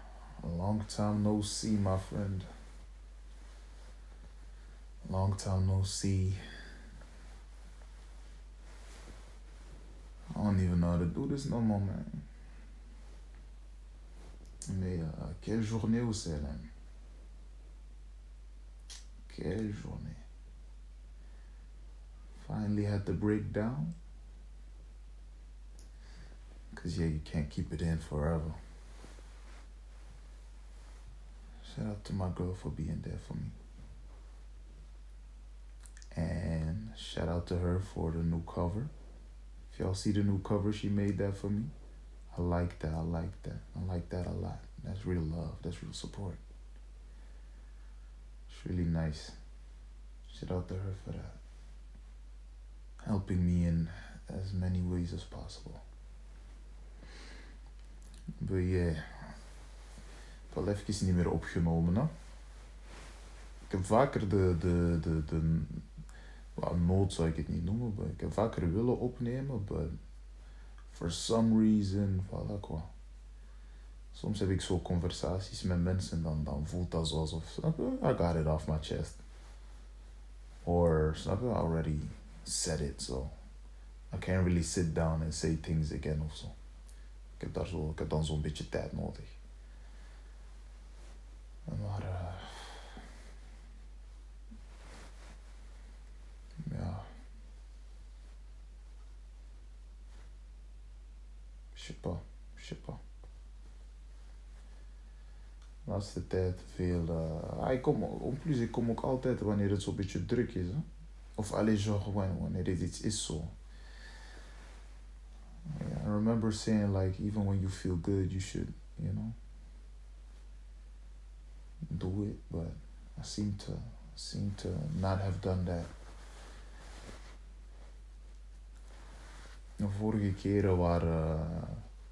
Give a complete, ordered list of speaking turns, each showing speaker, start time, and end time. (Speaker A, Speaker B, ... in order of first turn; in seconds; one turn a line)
Speaker A: 0.4-2.5
Speaker A: 5.0-6.4
Speaker A: 10.3-12.2
Speaker A: 14.7-16.7
Speaker A: 19.2-20.2
Speaker A: 22.4-23.9
Speaker A: 26.7-28.6
Speaker A: 31.6-33.5
Speaker A: 36.1-38.9
Speaker A: 39.7-41.7
Speaker A: 42.3-46.4
Speaker A: 48.5-49.4
Speaker A: 50.3-51.4
Speaker A: 53.0-55.8
Speaker A: 58.4-59.1
Speaker A: 60.5-62.1
Speaker A: 63.7-65.8
Speaker A: 66.5-69.9
Speaker A: 70.9-72.9
Speaker A: 74.1-79.2
Speaker A: 80.6-83.3
Speaker A: 84.1-86.5
Speaker A: 87.4-89.4
Speaker A: 91.7-92.9
Speaker A: 96.6-97.1
Speaker A: 101.7-103.0
Speaker A: 105.8-110.8
Speaker A: 111.3-113.5
Speaker A: 115.7-119.4
Speaker A: 121.9-125.9
Speaker A: 129.8-131.8